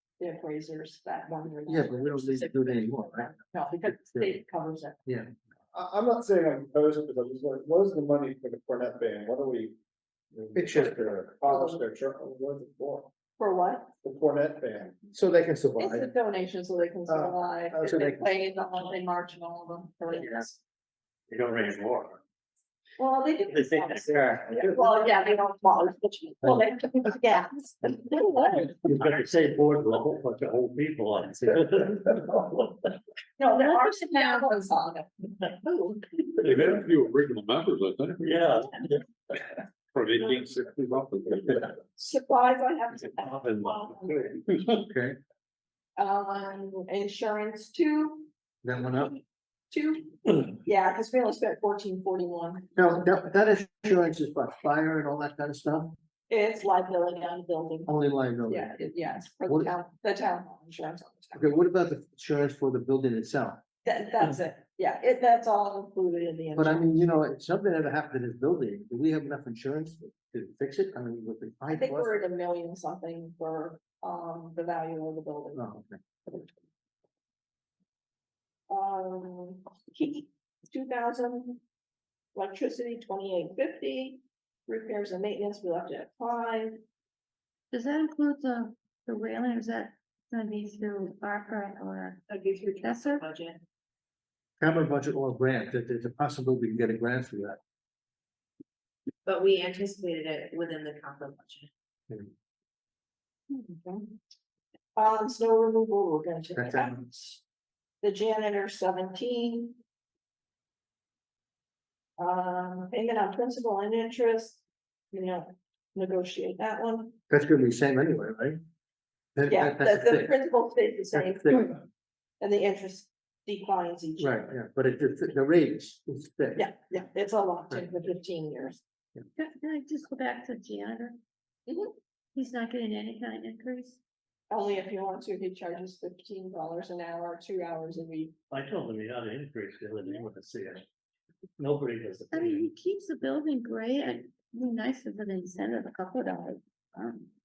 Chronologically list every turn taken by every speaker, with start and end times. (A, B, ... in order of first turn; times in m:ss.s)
0:00.2-0:05.0 A
0:01.7-0:04.4 B
0:05.7-0:09.8 C
0:10.3-0:13.1 C
0:10.6-0:11.3 B
0:11.4-0:11.8 A
0:13.4-0:13.9 A
0:14.0-0:15.0 C
0:15.1-0:16.1 B
0:15.8-0:20.6 A
0:17.1-0:17.4 C
0:17.7-0:18.3 B
0:21.3-0:22.2 D
0:23.0-0:28.8 A
0:23.5-0:24.8 D
0:28.8-0:33.0 D
0:33.4-0:36.3 A
0:33.4-0:34.5 E
0:36.4-0:38.3 F
0:38.2-0:39.0 D
0:39.9-0:41.7 F
0:42.0-0:44.4 A
0:43.2-0:43.8 D
0:44.8-0:45.2 B
0:46.0-0:48.3 A
0:48.6-0:49.2 B
0:48.8-0:49.2 A
0:49.7-0:52.7 A
0:52.8-0:55.9 B
0:56.3-0:58.0 A
0:57.9-0:58.8 B
0:58.5-1:01.5 A
0:59.5-0:59.7 B
1:01.4-1:03.6 B
1:03.8-1:07.0 A
1:06.6-1:12.2 B
1:11.7-1:15.6 A
1:15.6-1:16.0 B
1:18.7-1:21.6 A
1:22.3-1:26.8 A
1:27.7-1:32.2 E
1:32.3-1:33.6 G
1:32.8-1:33.3 E
1:34.6-1:37.6 B
1:39.2-1:41.7 G
1:43.5-1:44.2 A
1:45.0-1:47.4 A
1:46.6-1:47.0 B
1:48.0-1:49.8 A
1:52.2-1:57.2 A
1:57.3-1:58.6 B
1:59.4-2:00.4 B
1:59.5-2:01.8 A
2:01.1-2:01.8 B
2:02.4-2:04.5 A
2:04.2-2:06.7 B
2:06.6-2:08.8 A
2:09.4-2:11.2 E
2:11.7-2:11.9 A
2:12.4-2:14.0 E
2:14.5-2:18.3 A
2:18.5-2:20.8 D
2:21.6-2:22.7 D
2:22.3-2:27.3 E